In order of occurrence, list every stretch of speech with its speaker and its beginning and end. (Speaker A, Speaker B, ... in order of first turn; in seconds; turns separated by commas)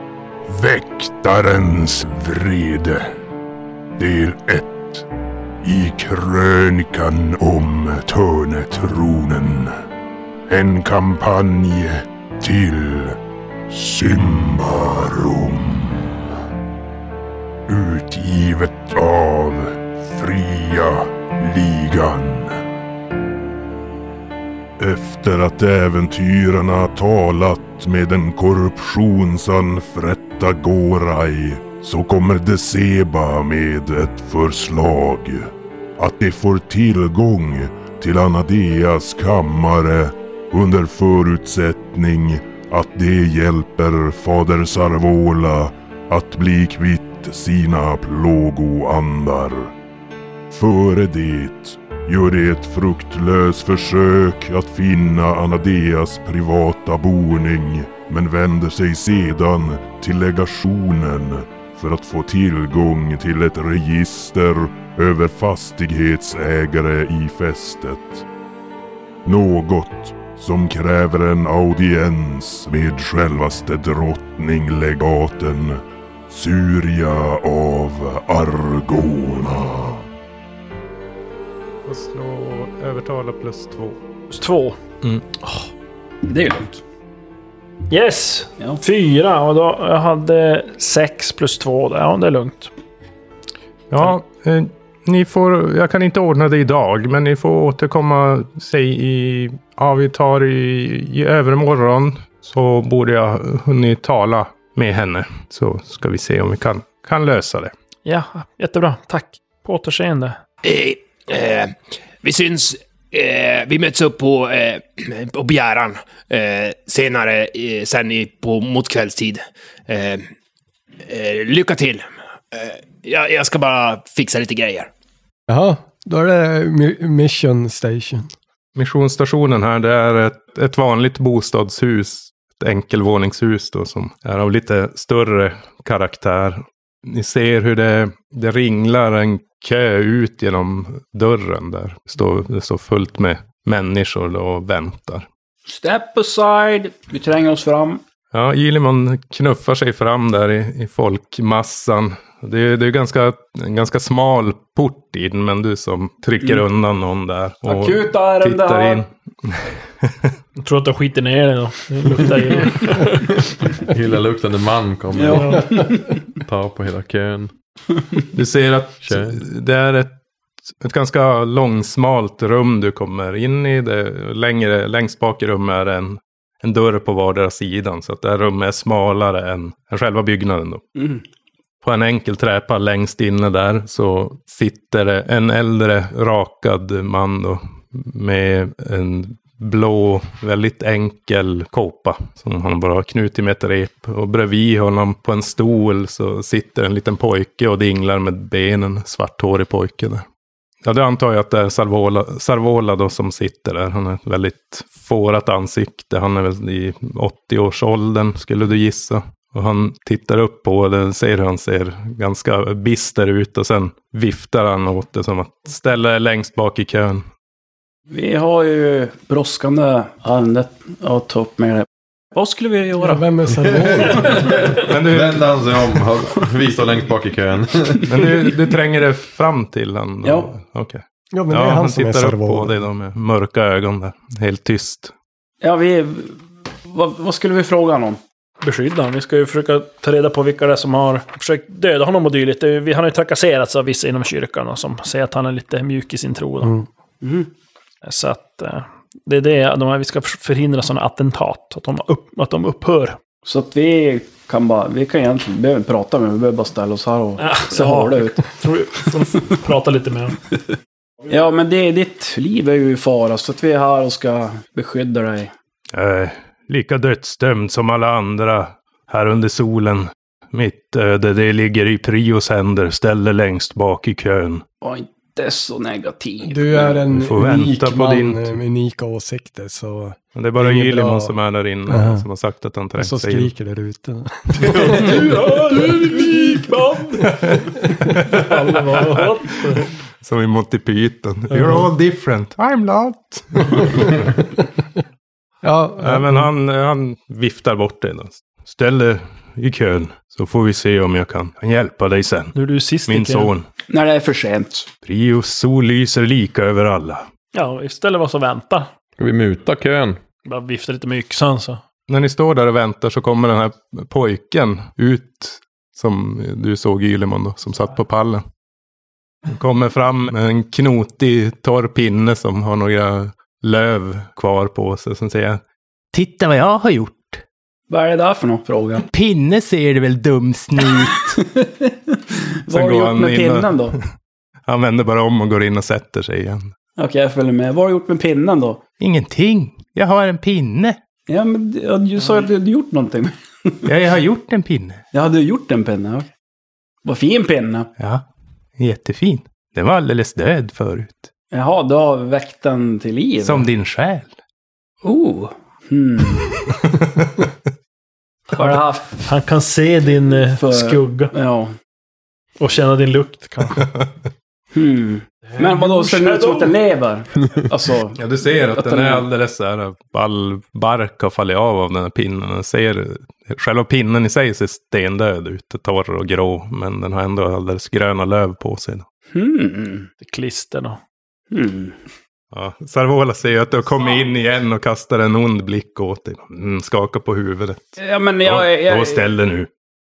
Speaker A: 0.5-3.1, Speaker A: 4.0-5.1, Speaker A: 5.6-9.7, Speaker A: 10.5-13.2, Speaker A: 13.7-16.2, Speaker A: 17.7-22.6, Speaker A: 24.8-49.7, Speaker A: 50.5-68.3, Speaker A: 69.2-80.0, Speaker B: 81.8-84.0, Speaker C: 84.3-84.8, Speaker B: 85.0-85.3, Speaker D: 86.3-86.8, Speaker C: 87.9-92.7, Speaker B: 93.9-107.7, Speaker C: 108.0-110.4, Speaker E: 110.6-120.3, Speaker E: 121.1-124.9, Speaker F: 125.5-128.3, Speaker B: 128.8-145.3, Speaker D: 145.7-148.0, Speaker B: 148.3-160.3, Speaker D: 157.7-159.0, Speaker C: 160.6-163.5, Speaker G: 163.7-167.5, Speaker D: 165.1-166.2, Speaker C: 165.3-165.9, Speaker B: 168.3-170.2, Speaker G: 169.0-169.4, Speaker B: 170.8-180.9, Speaker D: 181.0-181.2, Speaker B: 181.8-200.2, Speaker B: 200.8-217.2, Speaker D: 218.1-223.2, Speaker F: 223.0-224.6, Speaker G: 223.6-228.3, Speaker B: 224.8-225.6, Speaker B: 228.0-235.1, Speaker D: 230.2-230.5, Speaker F: 231.3-232.8, Speaker D: 235.6-238.2, Speaker C: 238.6-246.7, Speaker D: 247.2-247.5, Speaker C: 248.0-253.2, Speaker D: 253.4-258.4, Speaker C: 257.4-260.4, Speaker D: 261.3-265.5, Speaker B: 265.9-274.6, Speaker D: 274.8-277.0, Speaker F: 276.4-281.4, Speaker B: 277.1-278.6, Speaker B: 280.4-283.5, Speaker F: 281.9-282.2, Speaker F: 283.0-287.2, Speaker C: 284.6-287.2, Speaker B: 287.2-294.2, Speaker C: 287.8-289.9, Speaker F: 291.5-291.9, Speaker F: 295.6-296.5, Speaker B: 296.0-302.6, Speaker C: 302.5-303.5, Speaker B: 303.1-303.7, Speaker D: 303.9-304.9, Speaker B: 305.0-307.3, Speaker C: 307.5-308.9, Speaker G: 309.2-310.2, Speaker C: 310.4-311.8, Speaker B: 312.1-318.4, Speaker B: 319.5-325.6, Speaker B: 326.1-327.4, Speaker D: 327.9-329.1, Speaker B: 329.0-331.4, Speaker D: 331.2-334.0, Speaker B: 332.7-333.8, Speaker B: 334.7-336.7, Speaker D: 337.0-338.8, Speaker B: 339.0-341.0, Speaker D: 341.3-343.9, Speaker B: 343.9-345.0, Speaker D: 345.1-346.3, Speaker D: 347.0-347.9, Speaker B: 348.0-348.2, Speaker B: 348.8-351.3, Speaker D: 351.5-353.7, Speaker B: 353.4-354.3, Speaker D: 355.0-356.5, Speaker B: 356.8-357.5, Speaker C: 358.5-361.3, Speaker D: 358.5-359.2, Speaker D: 360.5-361.7, Speaker C: 362.6-363.8, Speaker D: 364.7-368.2, Speaker C: 365.6-366.8, Speaker B: 368.2-379.1, Speaker D: 368.7-369.2, Speaker D: 379.3-380.1, Speaker C: 380.2-381.0, Speaker D: 381.5-382.0, Speaker B: 382.5-389.7, Speaker D: 388.0-389.3